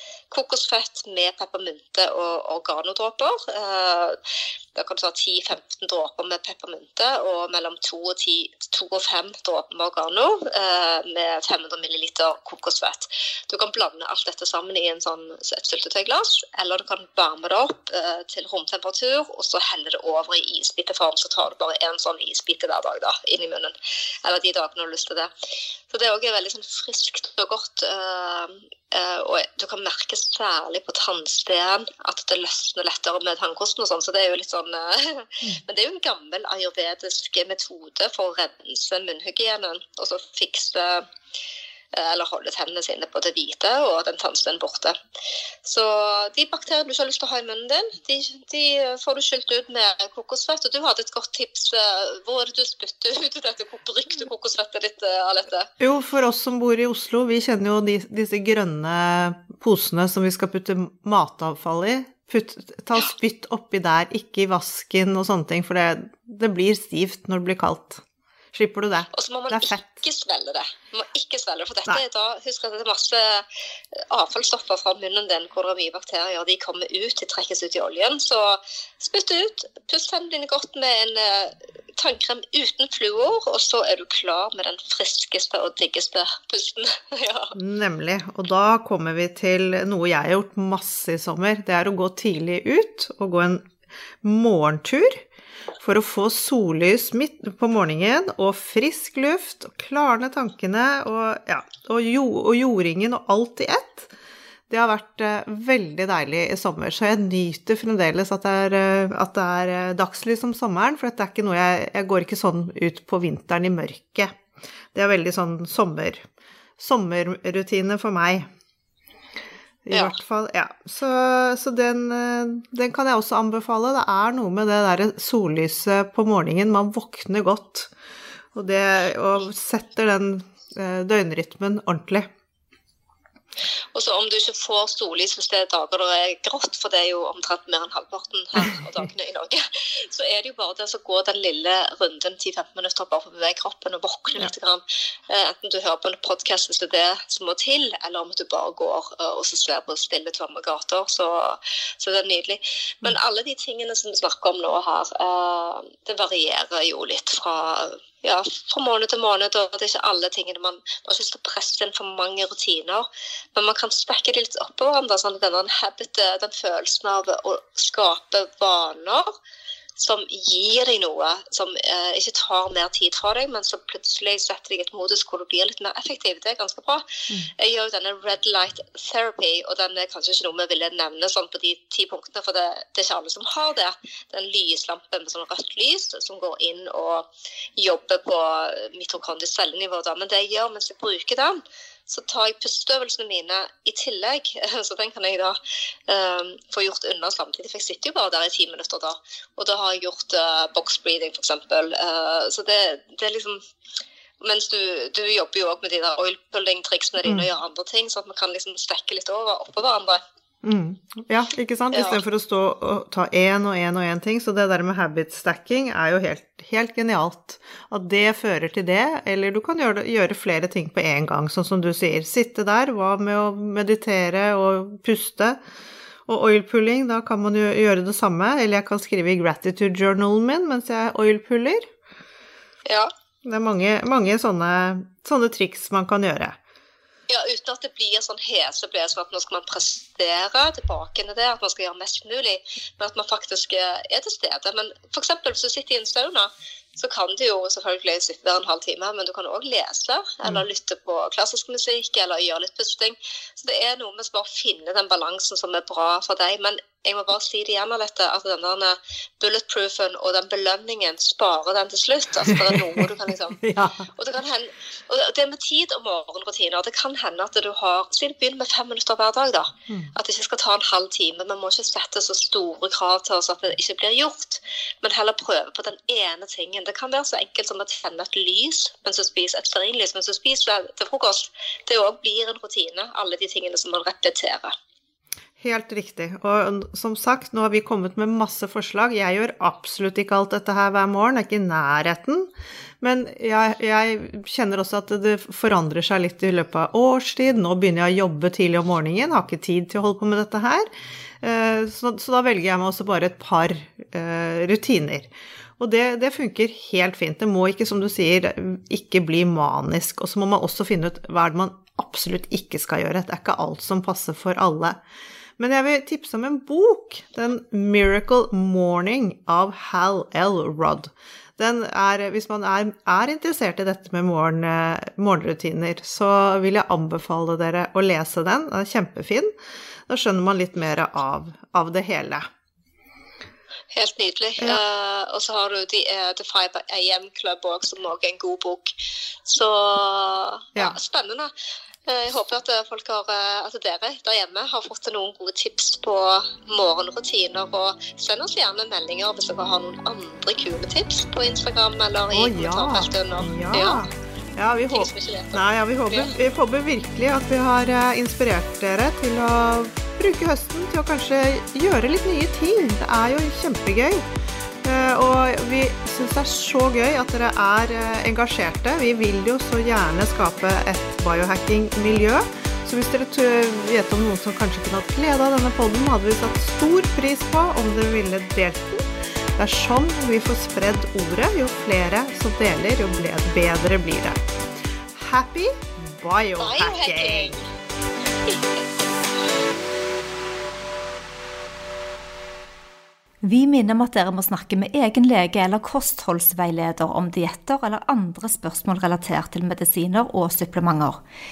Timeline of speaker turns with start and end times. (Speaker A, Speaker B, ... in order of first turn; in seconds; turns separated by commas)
Speaker A: 0.3-4.2, Speaker A: 4.7-25.3, Speaker A: 25.9-41.1, Speaker A: 41.9-45.0, Speaker A: 45.6-55.7, Speaker B: 55.8-70.0, Speaker A: 69.1-87.5, Speaker B: 87.5-93.7, Speaker B: 94.2-95.2, Speaker B: 95.8-104.1, Speaker B: 104.7-114.3, Speaker B: 114.9-116.2, Speaker B: 116.8-118.5, Speaker B: 119.8-127.9, Speaker B: 128.5-132.3, Speaker A: 133.9-169.3, Speaker A: 170.0-203.6, Speaker A: 204.4-210.2, Speaker B: 210.6-225.6, Speaker A: 211.9-212.2, Speaker B: 226.2-231.9, Speaker A: 232.8-233.1, Speaker B: 233.4-236.6, Speaker A: 237.3-284.7, Speaker B: 262.5-264.1, Speaker B: 285.6-300.9, Speaker B: 301.4-315.0, Speaker B: 315.6-329.5, Speaker B: 330.1-332.5, Speaker A: 333.9-338.9, Speaker A: 339.4-341.5, Speaker A: 342.1-354.0, Speaker B: 352.3-364.2, Speaker A: 354.9-356.3, Speaker B: 364.8-384.4, Speaker B: 385.1-387.6, Speaker A: 386.6-387.7, Speaker C: 393.4-401.2